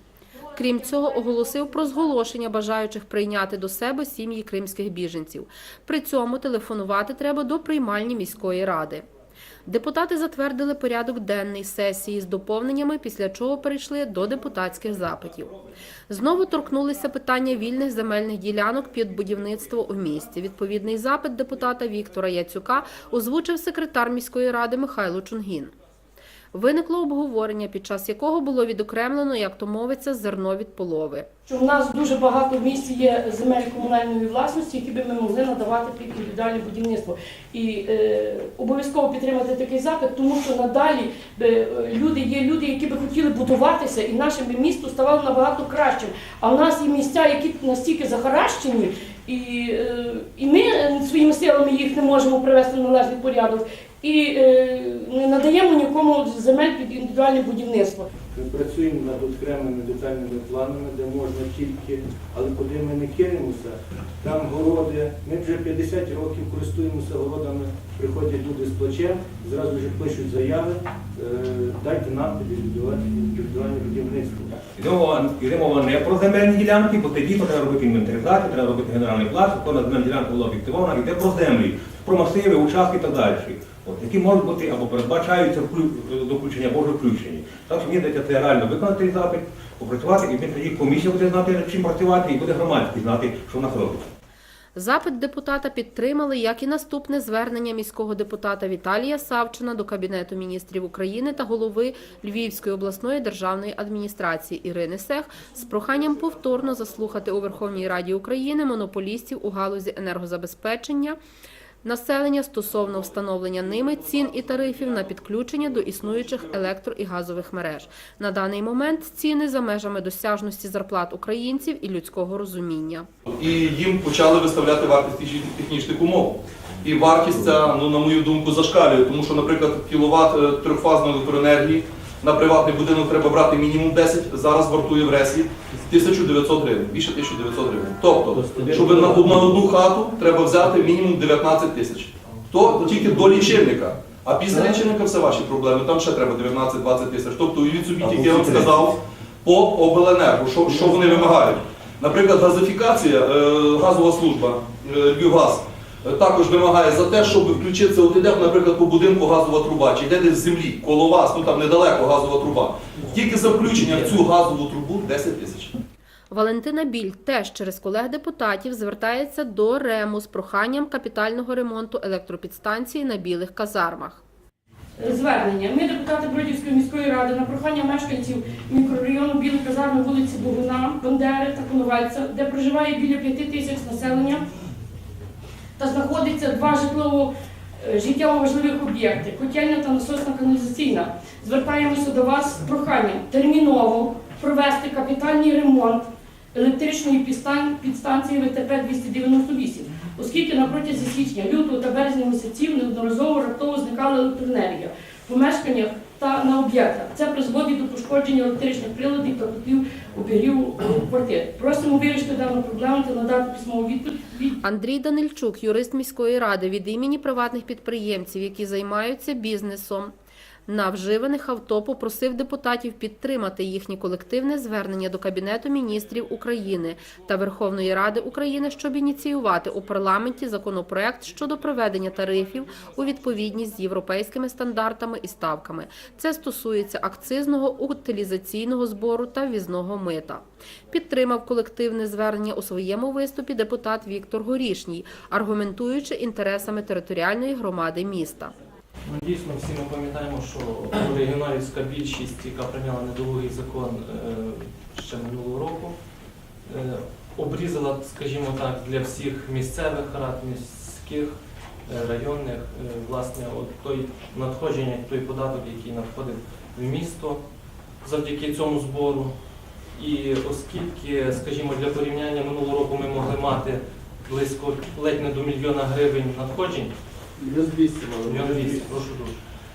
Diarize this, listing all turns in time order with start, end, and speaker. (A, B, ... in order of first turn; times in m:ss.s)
0:00.5-0:09.0 A
0:09.6-0:15.5 A
0:16.1-0:25.7 A
0:26.5-0:31.3 A
0:31.5-0:58.1 B
0:58.3-1:14.6 C
1:14.7-1:34.1 D
1:34.8-1:51.2 A
1:51.8-2:03.0 A
2:03.3-2:45.7 E
2:18.4-2:19.6 F
2:22.8-2:23.5 F
2:24.5-2:24.8 F
2:28.0-2:28.7 F
2:46.3-2:54.2 A
2:55.0-3:04.4 B
3:05.8-3:34.6 B
3:34.6-3:40.1 A
3:40.7-4:08.5 A
4:09.0-4:15.9 G
4:16.7-4:27.4 G
4:28.0-4:29.3 G
4:29.9-4:36.9 G
4:37.4-4:38.7 F
4:38.2-4:39.4 G